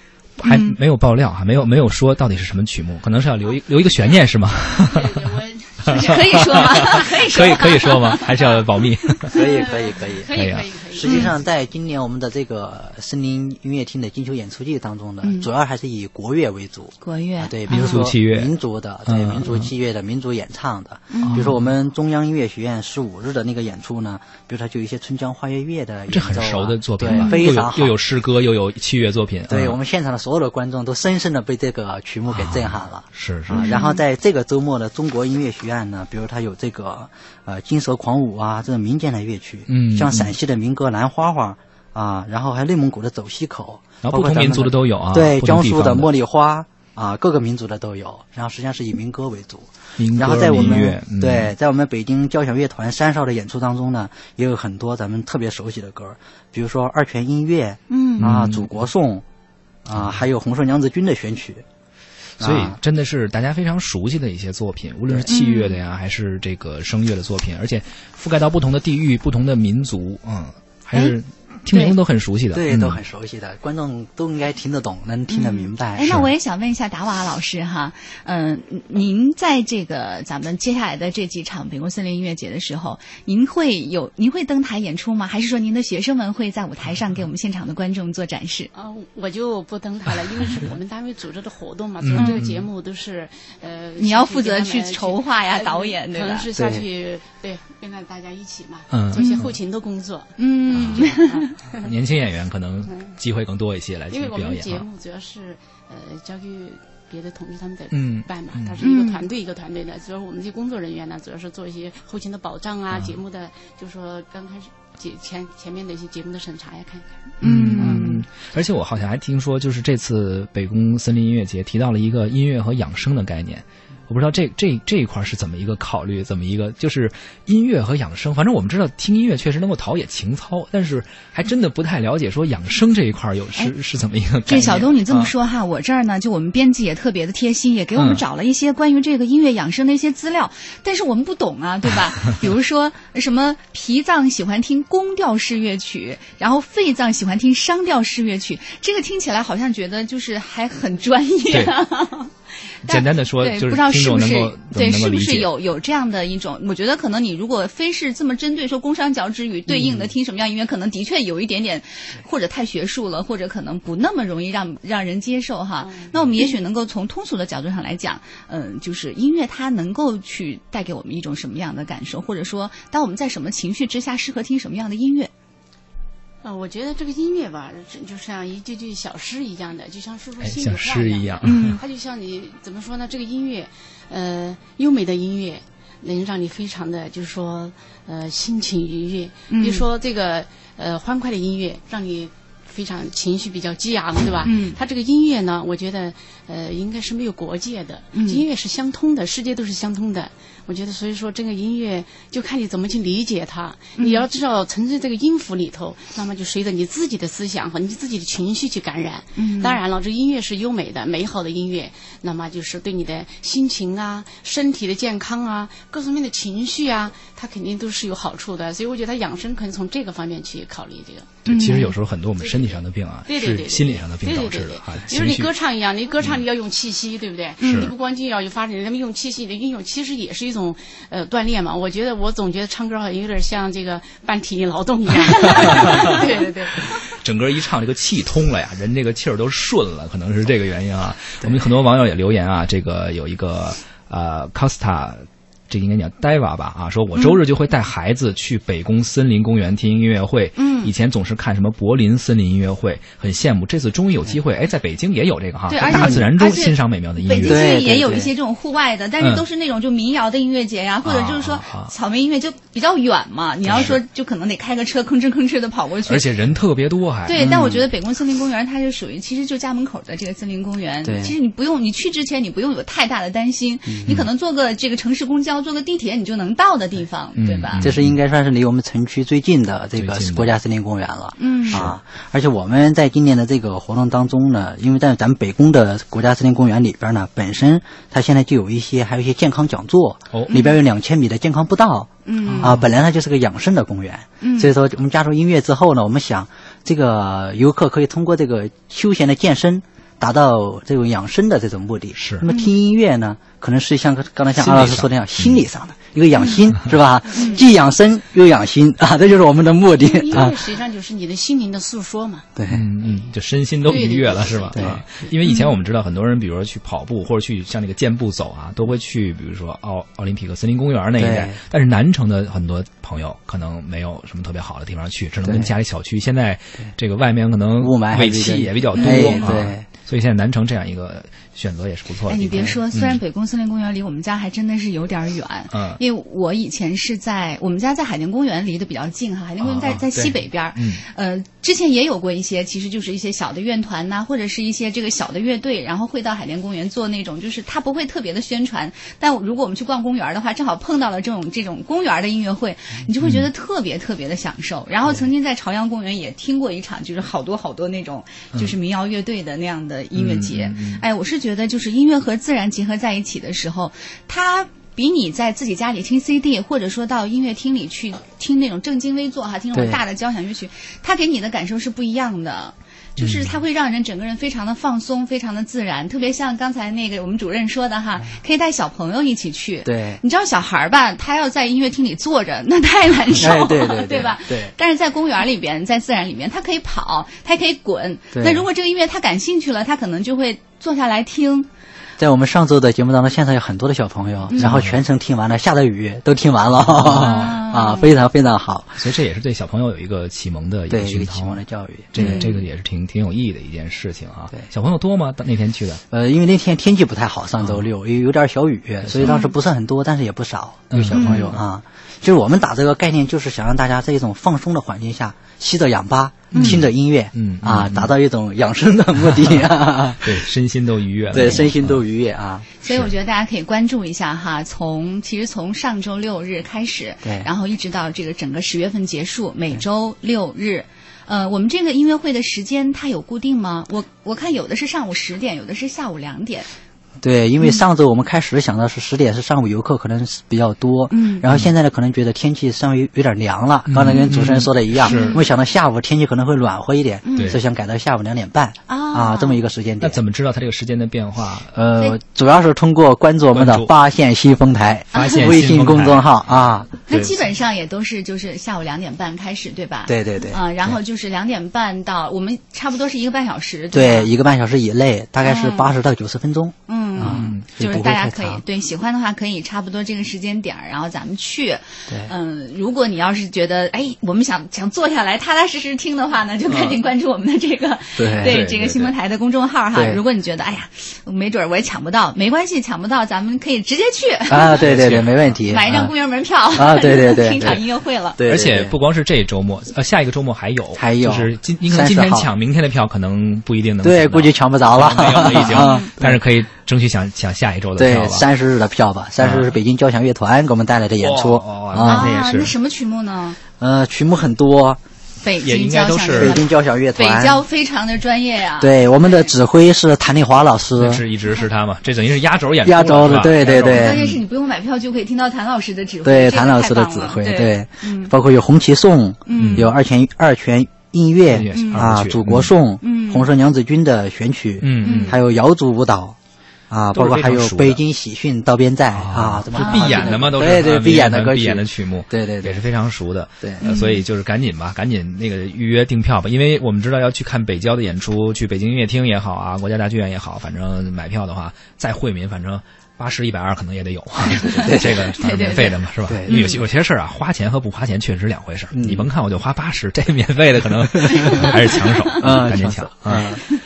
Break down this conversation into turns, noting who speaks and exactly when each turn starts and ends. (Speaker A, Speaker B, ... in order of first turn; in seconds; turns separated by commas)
Speaker A: 0.4-5.1, Speaker B: 0.4-0.7, Speaker C: 4.8-6.9, Speaker A: 5.8-9.3, Speaker B: 5.9-8.3, Speaker C: 8.1-8.5, Speaker C: 9.3-11.3, Speaker D: 9.3-10.3, Speaker A: 10.3-10.7, Speaker D: 10.9-27.9, Speaker B: 11.0-11.3, Speaker B: 15.2-15.5, Speaker B: 17.0-18.0, Speaker A: 17.7-18.5, Speaker A: 19.1-19.7, Speaker B: 21.1-21.5, Speaker A: 21.2-21.6, Speaker A: 26.1-29.8, Speaker B: 27.1-27.5, Speaker D: 29.5-59.2, Speaker A: 32.3-33.7, Speaker B: 33.5-34.0, Speaker A: 39.7-40.3, Speaker A: 44.0-46.1, Speaker A: 50.0-51.5, Speaker B: 57.9-58.3, Speaker A: 58.2-58.7, Speaker D: 59.8-61.6, Speaker D: 62.4-62.8, Speaker A: 62.4-73.0, Speaker B: 65.3-65.8, Speaker B: 71.7-72.0, Speaker D: 72.5-76.2, Speaker B: 75.3-88.7, Speaker C: 88.7-101.9, Speaker A: 92.0-92.6, Speaker B: 92.2-92.5, Speaker B: 94.0-96.5, Speaker D: 96.5-96.8, Speaker A: 98.9-99.5, Speaker B: 100.4-101.5, Speaker A: 100.7-101.1, Speaker A: 101.8-104.8, Speaker C: 102.9-103.1, Speaker C: 104.1-117.1, Speaker A: 107.9-108.8, Speaker B: 108.8-109.2, Speaker B: 117.4-118.2, Speaker A: 117.4-135.3, Speaker B: 134.4-152.3, Speaker A: 137.9-138.2, Speaker B: 152.8-175.3, Speaker A: 152.8-155.5, Speaker A: 159.7-160.1, Speaker C: 165.8-166.1, Speaker C: 176.4-221.4, Speaker A: 180.4-181.8, Speaker B: 181.4-181.8, Speaker B: 189.5-189.8, Speaker B: 194.4-194.8, Speaker B: 198.1-198.4, Speaker B: 204.0-204.2, Speaker B: 209.3-209.8, Speaker A: 221.4-225.5, Speaker B: 221.4-221.9, Speaker C: 222.4-237.0, Speaker A: 227.6-227.9, Speaker B: 227.6-227.9, Speaker A: 235.8-236.1, Speaker A: 237.1-257.7, Speaker B: 250.6-250.9, Speaker B: 255.7-266.6, Speaker D: 255.9-256.3, Speaker D: 257.3-258.3, Speaker A: 259.2-259.4, Speaker A: 261.0-261.9, Speaker A: 263.7-264.0, Speaker A: 266.1-267.5, Speaker B: 267.2-277.9, Speaker D: 267.4-267.9, Speaker D: 271.0-271.3, Speaker D: 273.9-274.2, Speaker A: 277.4-278.1, Speaker D: 277.8-310.6, Speaker A: 279.9-280.5, Speaker B: 281.4-281.8, Speaker A: 281.7-281.9, Speaker B: 290.5-290.8, Speaker B: 292.2-292.8, Speaker A: 292.5-292.8, Speaker B: 294.4-294.7, Speaker A: 302.1-302.4, Speaker B: 302.4-302.7, Speaker A: 304.6-305.6, Speaker C: 307.3-307.6, Speaker C: 310.0-312.5, Speaker D: 312.6-312.9, Speaker A: 312.7-333.2, Speaker C: 313.0-313.3, Speaker C: 313.8-315.3, Speaker D: 314.7-315.0, Speaker B: 315.4-315.7, Speaker D: 321.2-321.6, Speaker D: 325.4-325.7, Speaker D: 327.8-329.9, Speaker B: 328.9-329.6, Speaker B: 332.3-391.7, Speaker A: 335.7-336.0, Speaker A: 339.6-340.0, Speaker D: 340.0-340.3, Speaker A: 340.7-341.0, Speaker A: 353.2-353.5, Speaker A: 360.1-361.0, Speaker D: 369.7-370.0, Speaker A: 373.2-373.6, Speaker D: 379.8-380.2, Speaker D: 383.3-384.7, Speaker D: 388.3-388.7, Speaker D: 392.2-399.1, Speaker A: 394.6-395.0, Speaker A: 396.9-397.5, Speaker B: 397.0-398.1, Speaker A: 399.0-401.6, Speaker D: 400.9-402.5, Speaker A: 402.1-406.0, Speaker B: 402.1-402.5, Speaker D: 406.1-420.5, Speaker A: 409.0-409.3, Speaker B: 409.2-409.5, Speaker A: 410.9-411.6, Speaker B: 411.1-411.6, Speaker B: 416.5-416.8, Speaker A: 416.5-418.1, Speaker A: 420.2-422.0, Speaker D: 421.3-422.7, Speaker B: 422.8-436.7, Speaker D: 427.2-427.5, Speaker D: 437.2-450.2, Speaker B: 441.1-441.4, Speaker A: 443.9-445.4, Speaker B: 445.0-445.4, Speaker B: 447.2-447.6, Speaker B: 448.9-449.6, Speaker A: 450.0-451.8, Speaker D: 451.7-456.9, Speaker A: 453.5-453.9, Speaker A: 455.1-456.3, Speaker B: 455.2-455.6, Speaker B: 457.1-464.3, Speaker A: 457.1-457.4, Speaker D: 460.1-460.9, Speaker D: 463.9-468.6, Speaker B: 465.4-466.0, Speaker B: 466.9-484.9, Speaker A: 467.2-467.6, Speaker D: 472.1-472.3, Speaker A: 476.7-477.0, Speaker D: 478.2-478.6, Speaker A: 478.4-479.1, Speaker D: 479.9-480.2, Speaker D: 484.5-486.1, Speaker A: 484.8-485.5, Speaker B: 485.6-488.4, Speaker D: 486.7-487.8, Speaker D: 488.4-489.0, Speaker A: 488.4-498.4, Speaker D: 490.9-492.5, Speaker D: 494.0-496.4, Speaker B: 495.6-496.1, Speaker D: 498.0-502.3, Speaker A: 499.4-499.8, Speaker A: 501.2-502.7, Speaker B: 502.0-503.6, Speaker D: 503.8-505.0, Speaker B: 505.4-509.5, Speaker A: 505.6-506.6, Speaker D: 506.3-507.6, Speaker D: 508.8-511.2, Speaker A: 511.0-514.4, Speaker D: 512.8-514.2, Speaker B: 513.8-518.3, Speaker D: 516.2-526.4, Speaker B: 519.5-519.9, Speaker A: 519.6-519.9, Speaker A: 521.5-522.7, Speaker B: 521.7-522.1, Speaker B: 523.0-523.5, Speaker A: 524.8-525.4, Speaker B: 525.0-525.4, Speaker D: 526.9-532.8, Speaker A: 527.1-528.0, Speaker A: 529.1-553.6, Speaker B: 529.7-530.5, Speaker B: 533.8-534.2, Speaker D: 544.5-545.3, Speaker B: 544.5-546.8, Speaker D: 546.3-546.7, Speaker D: 548.9-549.3, Speaker D: 552.4-553.6